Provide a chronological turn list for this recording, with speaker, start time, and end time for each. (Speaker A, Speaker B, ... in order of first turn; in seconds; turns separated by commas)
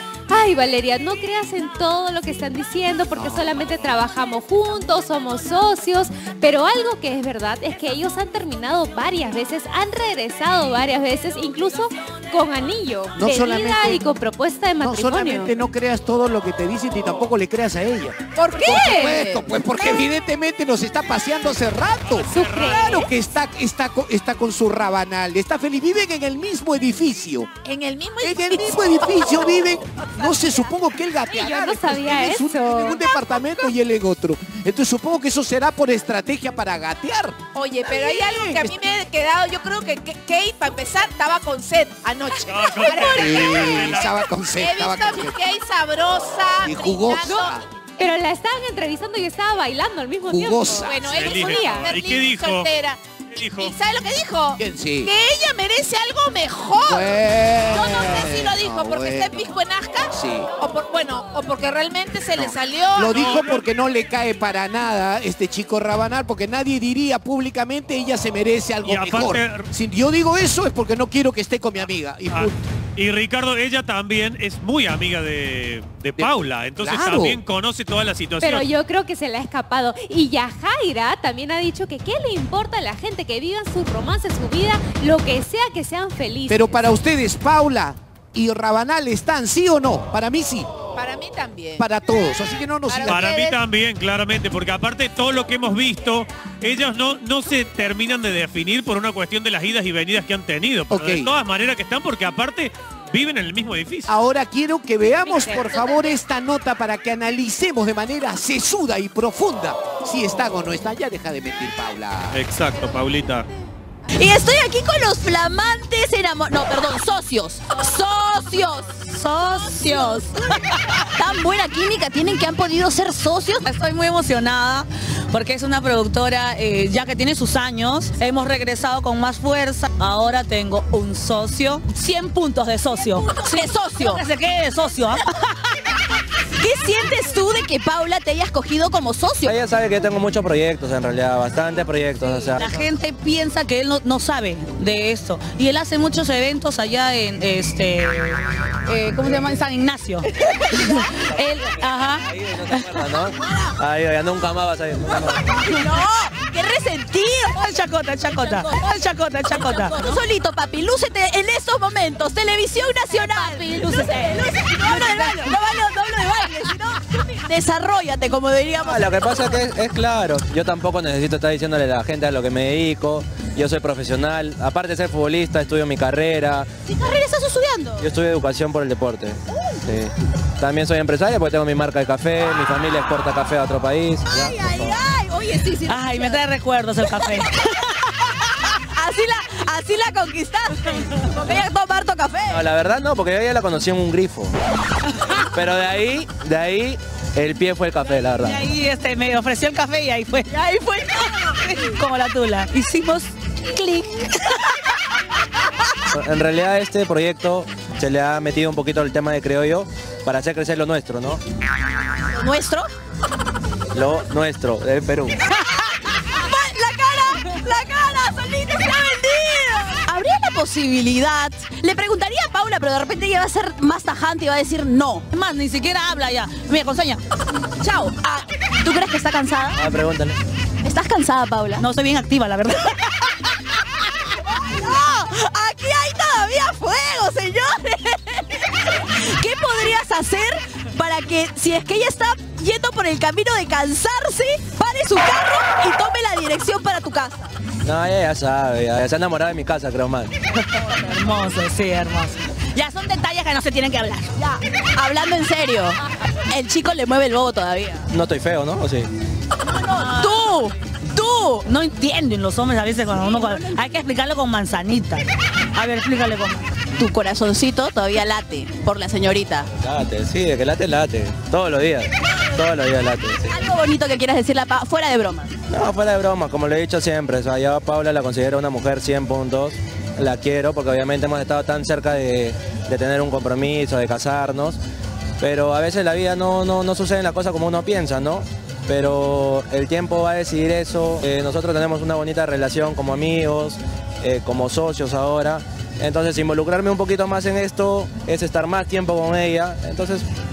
Speaker A: 0.3-15.5, Speaker B: 3.1-3.4, Speaker B: 13.2-14.0, Speaker B: 14.8-27.6, Speaker C: 18.3-19.6, Speaker A: 18.6-19.1, Speaker D: 22.0-23.0, Speaker A: 22.3-23.1, Speaker C: 27.6-30.4, Speaker B: 28.2-38.7, Speaker A: 31.2-33.1, Speaker C: 37.5-47.6, Speaker D: 42.5-44.3, Speaker B: 43.1-45.4, Speaker B: 46.6-47.6, Speaker A: 47.2-51.8, Speaker B: 50.2-51.1, Speaker C: 50.8-63.3, Speaker D: 51.1-52.7, Speaker D: 53.3-53.8, Speaker B: 54.6-55.1, Speaker B: 56.9-59.5, Speaker B: 60.1-60.5, Speaker B: 62.4-72.6, Speaker D: 63.1-63.7, Speaker D: 68.8-69.7, Speaker D: 72.3-78.7, Speaker B: 76.2-77.4, Speaker A: 78.4-87.0, Speaker B: 86.5-90.8, Speaker C: 90.9-91.8, Speaker B: 91.8-93.2, Speaker C: 92.8-93.6, Speaker D: 93.1-104.1, Speaker B: 100.9-101.3, Speaker B: 104.1-112.4, Speaker A: 105.1-106.2, Speaker D: 112.3-113.5, Speaker E: 114.2-118.9, Speaker F: 119.0-120.8, Speaker E: 120.9-123.7, Speaker F: 123.6-133.4, Speaker E: 133.2-134.2, Speaker F: 133.9-135.5, Speaker E: 136.5-139.5, Speaker G: 139.4-142.7, Speaker F: 142.6-153.1, Speaker G: 152.3-155.4, Speaker E: 155.5-157.6, Speaker F: 157.6-160.2, Speaker E: 159.5-169.3, Speaker G: 168.8-176.7, Speaker E: 176.9-178.0, Speaker G: 178.0-185.0, Speaker E: 184.3-186.4, Speaker F: 185.9-187.5, Speaker E: 188.7-192.6, Speaker G: 192.5-194.5, Speaker G: 195.5-198.6, Speaker F: 198.3-200.5, Speaker E: 200.5-201.8, Speaker F: 201.2-204.7, Speaker G: 206.1-211.4, Speaker E: 212.3-212.9, Speaker G: 213.9-215.4, Speaker E: 215.7-225.3, Speaker F: 225.3-227.2, Speaker E: 227.8-229.8, Speaker G: 229.8-230.4, Speaker E: 230.8-231.8, Speaker F: 231.8-232.9, Speaker E: 233.7-247.5, Speaker G: 247.8-250.3, Speaker F: 250.6-254.3, Speaker E: 254.4-258.1, Speaker G: 258.1-259.1, Speaker E: 259.6-261.6, Speaker F: 259.9-260.7, Speaker F: 261.6-266.7, Speaker E: 263.2-263.8, Speaker E: 267.0-269.7, Speaker G: 269.8-273.5, Speaker E: 273.5-275.5, Speaker G: 275.7-284.8, Speaker G: 285.4-300.2